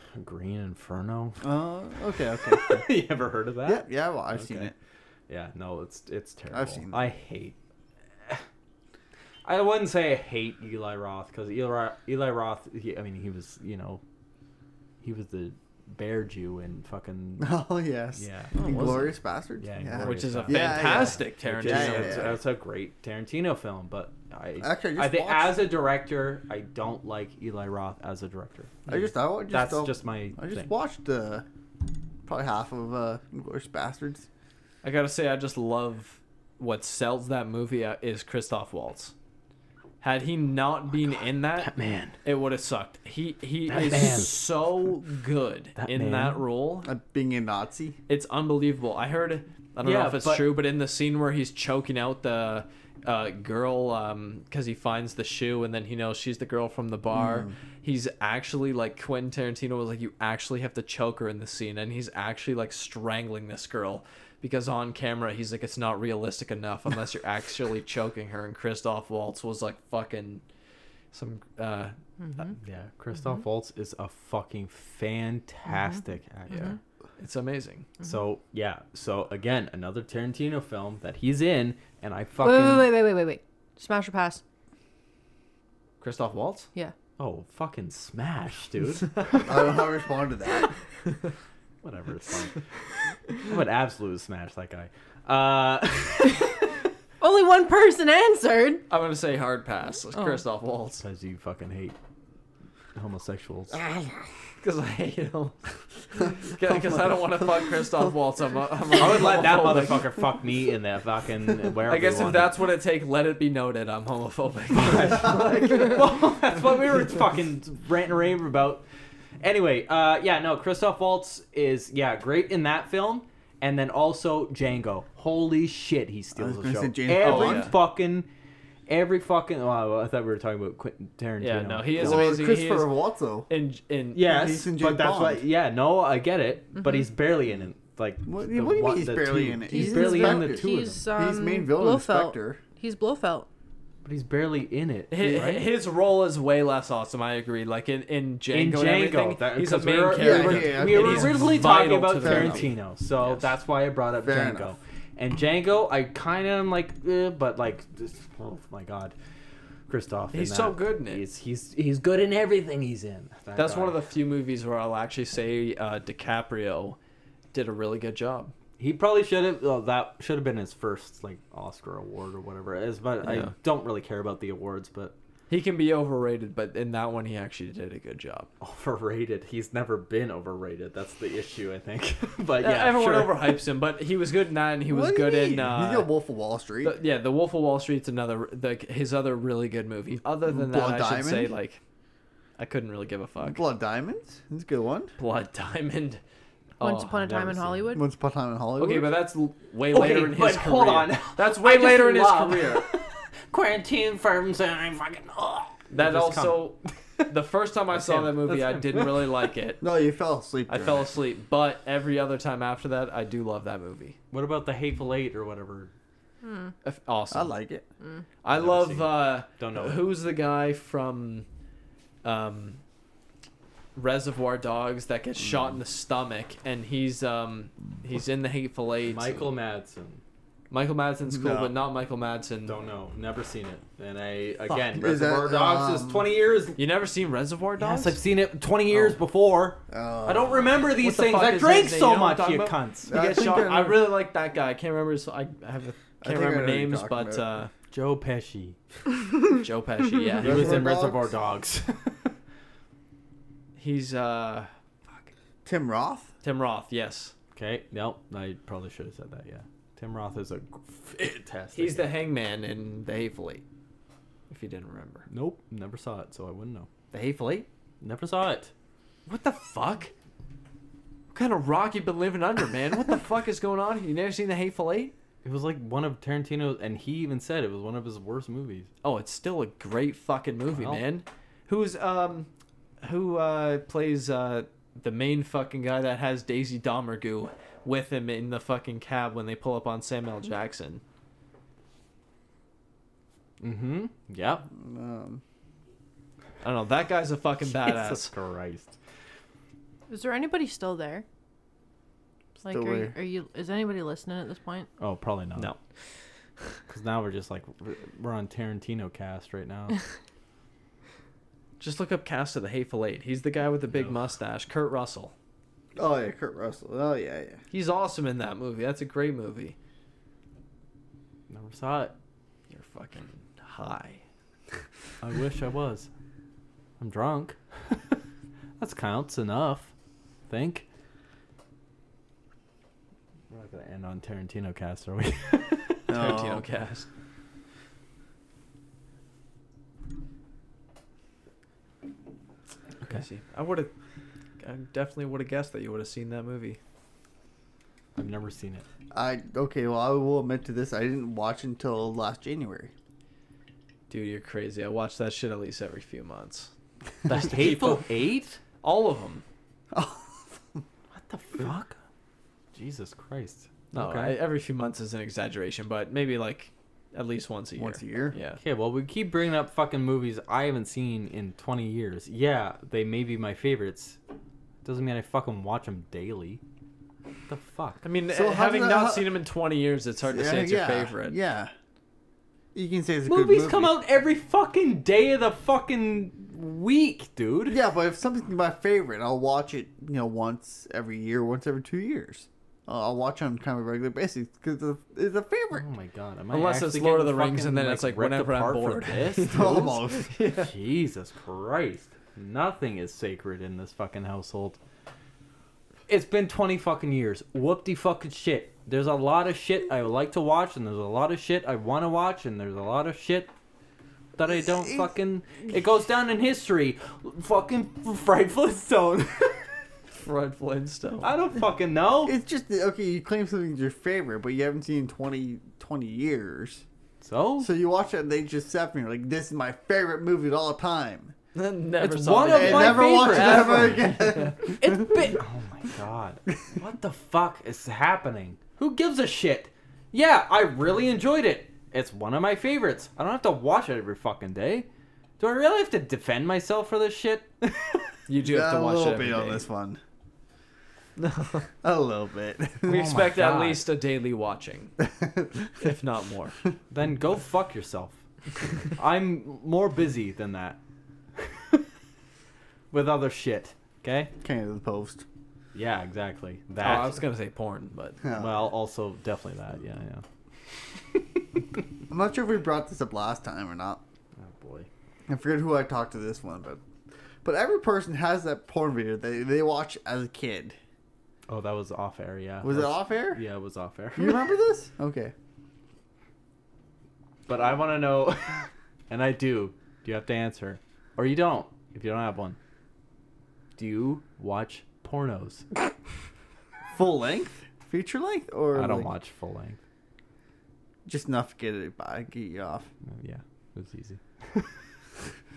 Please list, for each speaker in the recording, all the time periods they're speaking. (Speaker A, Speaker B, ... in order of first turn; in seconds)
Speaker A: 0.1-1.5, 2.4-4.7, 5.3-7.5, 9.4-14.0, 15.0-17.6, 18.1-19.0, 19.6-30.7, 41.6-42.1, 43.7-44.4, 45.8-46.4, 49.8-50.5, 72.6-76.8, 78.0-82.9, 87.2-89.8, 91.8-92.6, 93.3-96.7, 101.0-102.0, 102.9-103.8, 108.9-112.6, 114.7-118.8, 119.4-128.3, 128.9-132.3, 134.1-141.0, 144.0-145.7, 148.5-159.1, 159.9-164.0, 168.8-175.1, 178.6-183.6, 197.2-198.0, 199.9-206.9, 207.9-209.3, 214.3-215.9, 218.5-220.0, 229.1-230.2, 232.7-236.8, 237.8-243.1, 247.9-248.8, 250.4-252.3, 257.5-262.1, 265.3-266.9, 268.0-268.7, 275.4-278.9, 280.7-281.0, 293.6-294.6, 297.7-298.9, 305.0-305.7, 306.9-310.0, 321.5-322.1, 325.2-326.1, 327.0-328.2, 328.8-329.9, 330.5-330.8, 333.5-336.0, 348.1-348.8, 357.3-358.6, 361.1-362.0, 362.7-364.3, 368.6-374.2, 374.8-376.6, 377.5-378.0, 383.3-387.8, 395.8-404.8, 406.1-413.5, 414.4-419.7, 421.2-422.3, 427.2-427.7, 432.0-444.9, 445.4-448.1, 452.9-453.9, 456.9-458.2, 458.8-460.8, 461.3-461.8, 462.9-464.3, 465.7-467.2, 468.3-470.2, 474.4-474.9, 481.5-484.5, 487.5-492.6, 493.8-495.6, 498.7-499.8, 503.1-504.7
Speaker B: 1.4-2.9, 3.6-4.7, 6.5-7.0, 17.4-22.4, 24.6-25.6, 28.9-31.4, 32.2-34.2, 46.8-48.0, 57.1-57.5, 89.4-90.7, 106.7-107.8, 126.3-127.7, 132.0-133.5, 134.3-135.4, 138.2-142.6, 150.2-151.7, 152.2-152.7, 154.2-154.7, 184.9-186.9, 190.4-191.5, 193.4-195.1, 197.9-199.2, 209.8-211.1, 217.3-217.8, 231.3-231.7, 234.9-236.2, 239.9-240.7, 243.1-244.0, 246.2-247.5, 250.4-251.3, 255.6-256.3, 294.7-295.4, 302.6-303.1, 315.9-317.6, 336.1-336.6, 349.1-352.9, 359.9-360.8, 367.8-368.3, 378.3-379.3, 380.3-381.7, 382.7-383.9, 387.7-395.9, 399.5-400.3, 414.7-415.1, 422.2-426.8, 427.6-431.3, 432.5-435.3, 448.4-450.0, 451.8-452.9, 455.0-455.8, 464.4-465.2, 468.2-468.5, 472.1-474.0, 475.3-476.8, 477.4-480.8, 482.6-483.4, 484.1-485.3, 496.9-499.1, 501.1-502.9
Speaker C: 18.5-19.1, 20.0-22.4, 34.8-39.1, 40.0-41.7, 42.2-46.9, 48.1-70.4, 71.1-72.5, 76.5-77.9, 86.0-86.7, 98.9-101.0, 104.6-105.6, 106.3-110.1, 111.8-116.2, 127.2-127.7, 131.4-132.9, 133.5-134.5, 145.1-152.7, 153.2-153.5, 160.3-161.2, 163.6-167.0, 167.5-168.5, 173.2-173.5, 175.5-178.5, 182.6-186.1, 186.8-191.8, 192.6-193.6, 195.2-196.2, 196.8-197.2, 198.8-202.9, 205.9-209.8, 210.7-214.2, 216.8-217.5, 218.4-221.4, 222.2-222.8, 223.9-229.5, 230.7-232.8, 234.7-235.0, 236.8-238.2, 241.0-247.7, 249.5-250.9, 253.8-255.3, 256.4-257.3, 261.7-263.6, 264.5-265.3, 267.1-267.6, 269.2-270.1, 271.3-275.1, 279.0-282.5, 283.0-291.0, 296.6-298.3, 311.8-315.3, 317.7-319.8, 322.7-324.2, 336.1-337.1, 343.1-343.9, 344.6-346.8, 354.1-356.7, 357.3-358.1, 358.8-359.4, 363.9-368.6, 378.0-381.4, 396.5-400.7, 420.2-421.3, 431.5-434.5, 448.3-449.6, 451.2-451.7, 452.9-454.9, 455.8-456.6, 466.8-468.2
Speaker D: 72.2-72.5, 82.4-84.4, 97.2-98.8, 100.1-100.4, 139.7-143.5, 196.8-198.0, 216.4-216.7, 300.1-301.2, 302.6-304.9